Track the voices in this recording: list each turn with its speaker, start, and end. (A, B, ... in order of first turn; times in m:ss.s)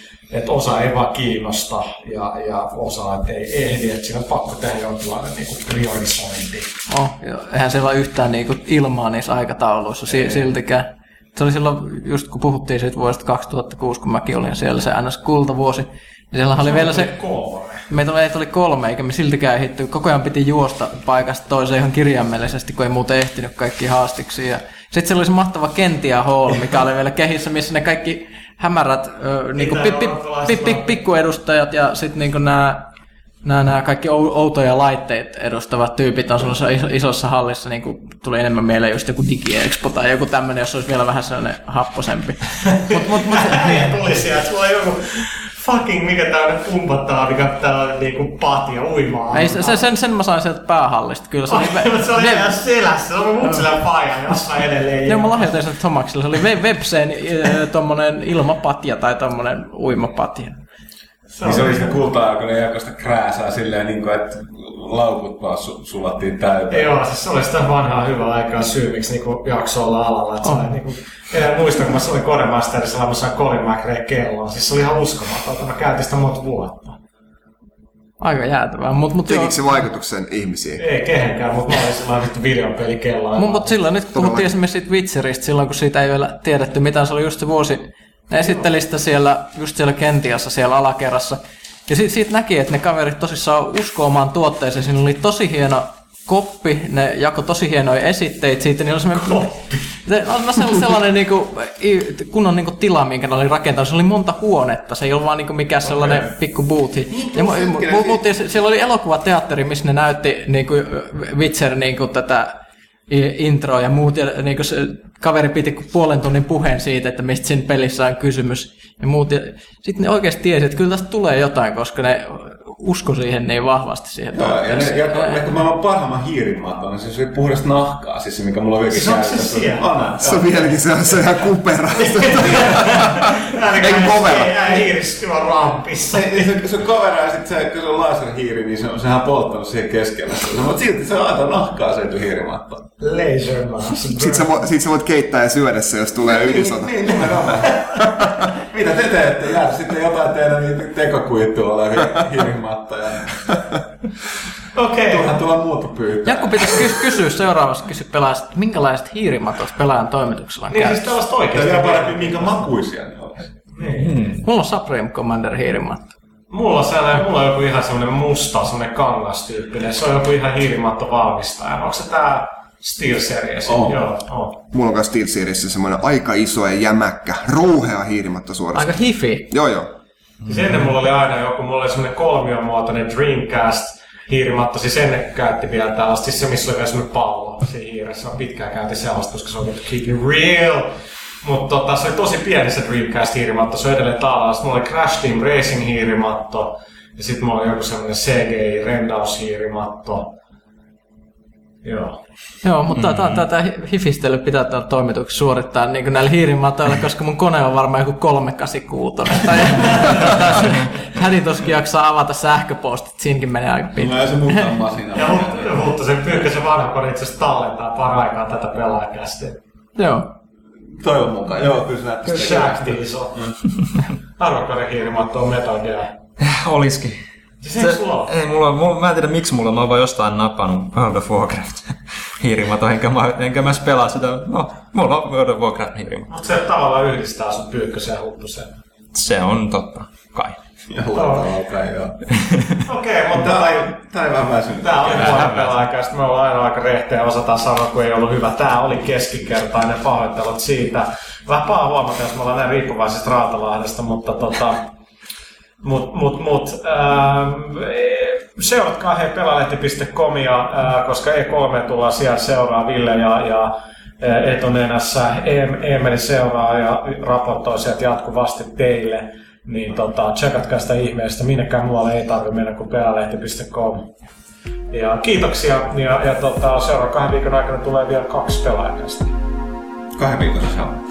0:00.3-0:06.7 A
0:06.9-0:17.2 B
0:10.1-0:10.5 A
0:16.6-0:17.8 A
0:17.9-0:32.9 B
0:29.6-0:30.9 A
0:33.4-0:44.0 B
0:42.6-0:49.8 A
0:49.3-0:52.6 B
0:51.5-0:55.4 A
0:55.0-1:00.6 B
1:01.3-1:02.0 A
1:01.4-1:06.9 C
1:06.7-1:17.0 A
1:10.4-1:10.7 B
1:18.2-1:19.8 B
1:19.2-1:20.8 D
1:20.8-1:23.8 A
1:23.4-1:52.6 B
1:24.1-1:24.5 D
1:39.2-1:39.9 A
1:45.9-1:46.3 C
1:47.1-1:48.2 C
1:53.1-2:05.4 B
2:04.3-2:10.6 C
2:08.9-2:10.2 A
2:10.2-2:14.7 D
2:12.0-2:16.5 A
2:16.1-2:22.9 C
2:23.0-2:24.6 A
2:24.1-2:27.1 D
2:26.2-2:27.9 C
2:28.6-2:33.6 C
2:34.7-2:35.4 A
2:35.0-2:37.1 C
2:36.2-2:41.2 B
2:40.7-2:42.6 A
2:41.5-2:43.5 C
2:43.7-2:44.2 A
2:44.0-2:44.4 E
2:44.4-2:46.1 B
2:46.5-2:54.6 A
2:53.6-2:54.0 C
2:54.7-2:59.0 D
2:58.7-2:59.5 B
2:59.5-2:59.9 D
3:00.4-3:20.3 A
3:21.8-3:22.2 A
3:22.6-3:34.7 B
3:22.9-3:23.4 E
3:34.0-3:35.9 C
3:35.1-3:39.6 A
3:40.0-3:40.3 B
3:40.9-3:43.6 C
3:42.3-3:43.4 A
3:44.4-3:46.2 A
3:46.4-3:47.2 E
3:47.6-3:48.3 A
3:47.8-3:56.3 E
3:56.3-3:58.7 A
3:59.1-4:00.6 E
4:00.9-4:02.2 C
4:01.1-4:01.4 A
4:02.3-4:02.7 E
4:02.8-4:04.0 A
4:03.3-4:05.7 C
4:04.8-4:14.9 A
4:15.8-4:34.1 A
4:34.9-4:39.3 A
4:40.1-4:41.0 C